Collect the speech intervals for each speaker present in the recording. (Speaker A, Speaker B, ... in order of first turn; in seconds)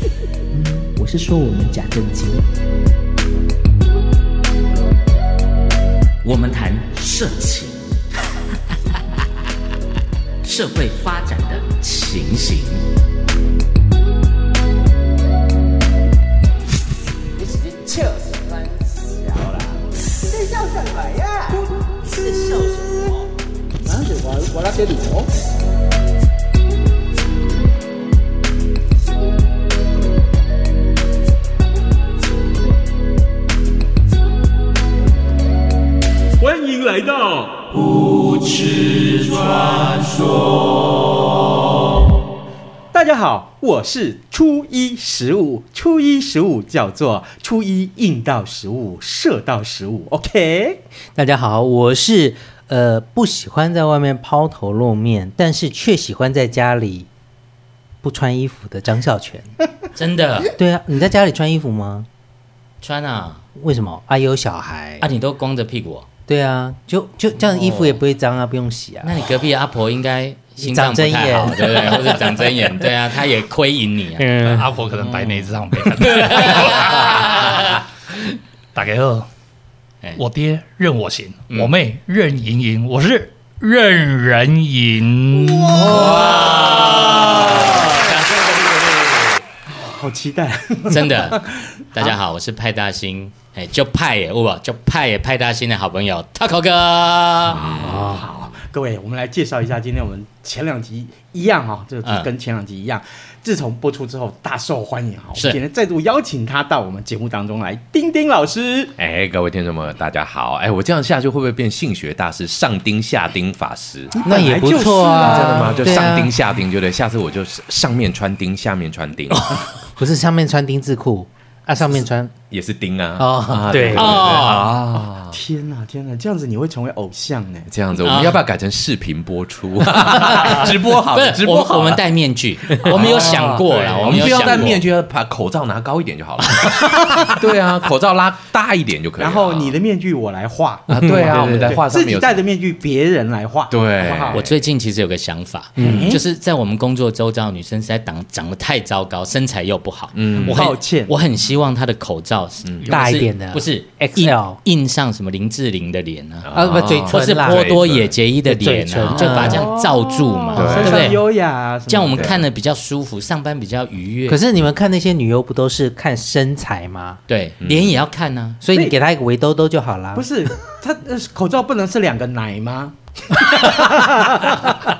Speaker A: 0.5-2.4, 51.1-57.1, 58.0-59.5, 60.5-62.1, 63.5-65.0, 66.3-69.2, 70.6-72.3, 74.2-74.9, 97.8-98.2, 114.2-116.3, 119.9-122.3, 123.2-124.4, 140.9-141.8, 145.8-146.1, 152.8-154.6, 156.5-157.7, 158.4-159.7, 160.5-161.1, 164.3-167.2, 168.6-170.3
Speaker B: 6.2-7.9, 10.4-12.8, 59.9-60.5, 62.8-63.4, 65.0-66.0, 67.4-68.0, 69.0-74.3, 75.1-77.5, 81.5-81.8, 85.7-88.3, 90.9-97.7, 102.0-102.3, 123.9-124.7, 128.0-128.4, 130.1-134.8, 144.3-156.5, 157.1-161.2, 161.9-164.4, 167.3-168.6
Speaker C: 20.2-21.7, 23.8-25.3, 36.4-37.7, 42.9-50.8, 85.5-87.7, 89.7-92.1, 97.7-108.9, 114.1-116.0, 125.3-127.7, 133.1-134.1, 139.2-144.4, 145.8-146.2, 150.4-151.1, 159.5-162.4, 170.1-174.8
Speaker D: 74.5-77.3, 78.7-79.3, 80.2-86.0
Speaker E: 85.9-86.9, 97.5-98.1, 109.0-114.2, 115.2-119.5, 122.5-125.4, 127.7-132.0, 132.8-139.8, 140.9-142.4, 143.7-144.5, 150.1-150.7, 152.6-152.9, 156.4-158.2, 159.0-159.6, 160.5-161.1, 162.1-162.4, 167.6-168.0